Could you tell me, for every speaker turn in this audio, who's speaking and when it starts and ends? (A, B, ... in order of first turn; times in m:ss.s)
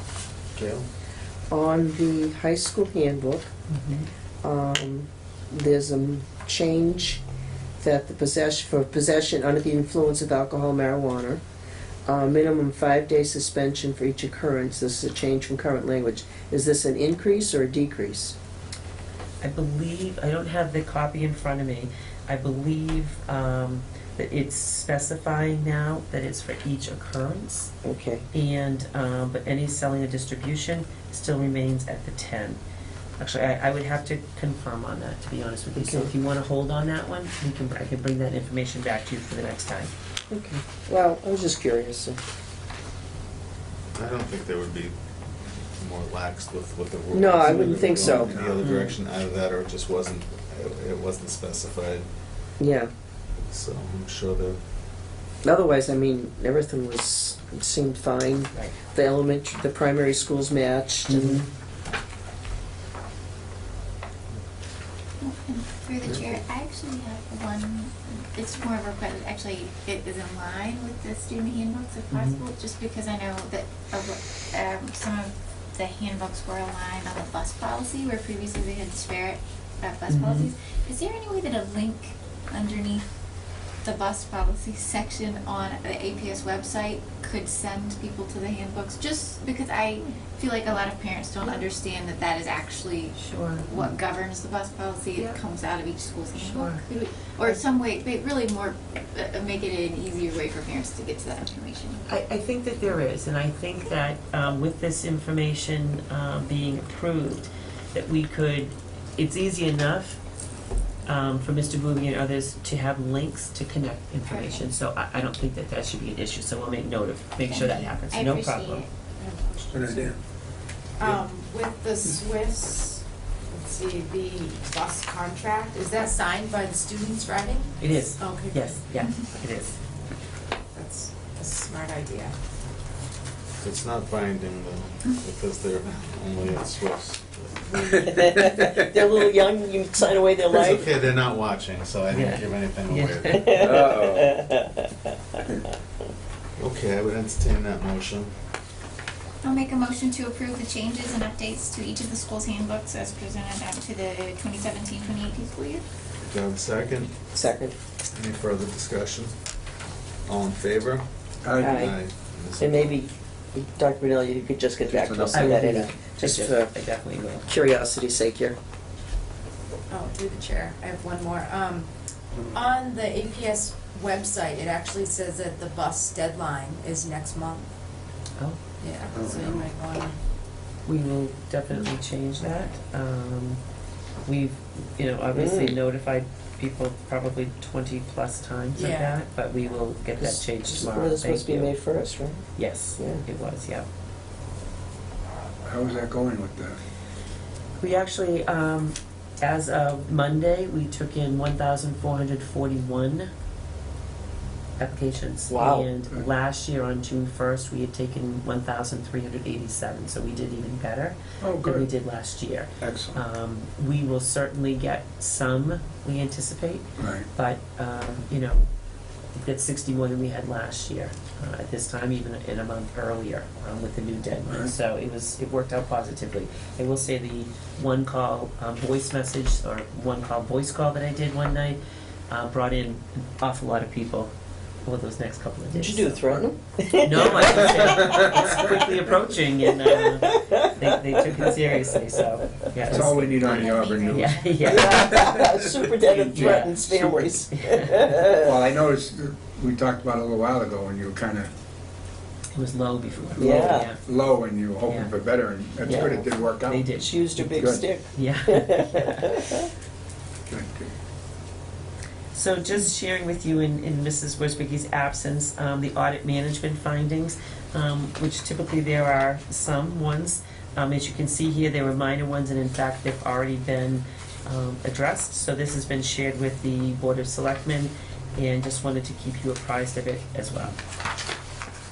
0:00.5-0:00.9 A
0:01.5-0:03.5 B
0:03.7-0:04.1 C
0:04.4-0:07.2 B
0:07.8-0:11.4 B
0:12.1-0:18.4 B
0:19.4-0:27.7 C
0:27.8-0:28.2 B
0:28.3-0:32.6 C
0:33.2-0:39.9 C
0:35.8-0:36.1 B
0:40.3-0:42.2 B
0:43.9-0:44.9 A
0:45.8-0:52.1 A
0:47.1-0:48.3 B
0:48.1-0:48.5 D
0:48.6-0:49.0 C
0:52.6-0:52.9 B
0:53.4-0:54.6 A
0:55.4-1:01.4 B
1:01.1-1:01.4 C
1:05.2-1:23.1 E
1:06.0-1:06.4 A
1:12.1-1:12.4 C
1:20.1-1:20.5 C
1:23.8-1:42.0 E
1:33.2-1:33.9 C
1:35.2-1:35.4 C
1:36.4-1:36.8 C
1:42.1-1:50.2 C
1:51.1-1:58.8 C
1:54.3-1:54.6 E
1:57.4-1:58.9 E
1:59.2-2:00.2 F
1:59.7-2:00.2 A
2:01.0-2:08.8 F
2:07.8-2:09.7 C
2:10.7-2:12.3 F
2:13.6-2:18.4 A
2:18.0-2:20.9 B
2:20.5-2:24.3 A
2:22.1-2:23.9 C
2:23.5-2:24.8 B
2:26.6-2:28.3 A
2:29.4-2:35.8 E
2:36.2-2:37.3 A
2:37.3-2:37.7 B
2:38.1-2:39.4 A
2:40.3-2:41.0 A
2:41.4-2:41.9 D
2:41.6-2:42.0 B
2:41.8-2:43.0 A
2:42.6-2:46.7 B
2:44.9-2:45.5 D
2:45.0-2:45.4 A
2:45.3-2:47.5 C
2:47.5-2:48.6 B
2:49.9-2:51.9 F
2:52.5-2:57.6 F
2:58.8-3:00.2 F
3:00.8-3:03.6 C
3:04.2-3:11.7 C
3:05.3-3:05.8 B
3:08.7-3:09.2 F
3:10.2-3:12.5 B
3:12.6-3:13.9 C
3:13.0-3:13.2 B
3:15.6-3:16.8 D
3:17.8-3:23.3 C
3:24.8-3:38.6 C
3:25.5-3:25.9 B
3:31.4-3:31.9 D
3:32.8-3:33.2 D
3:37.0-3:37.3 D
3:39.3-3:51.8 C
3:44.5-3:44.7 D
3:52.3-3:54.3 C
3:54.8-3:56.2 C
3:55.7-3:58.9 B
3:57.0-4:05.1 C
3:59.8-4:01.5 B
4:02.9-4:07.4 D
4:03.5-4:04.3 E
4:04.6-4:08.6 B
4:07.5-4:08.0 C
4:08.3-4:11.5 D
4:12.5-4:14.0 C
4:13.3-4:13.9 B
4:13.4-4:17.9 D
4:15.8-4:17.1 C
4:15.8-4:16.3 B
4:16.9-4:19.6 B
4:18.1-4:19.5 C
4:20.5-4:20.9 D
4:22.3-4:40.7 C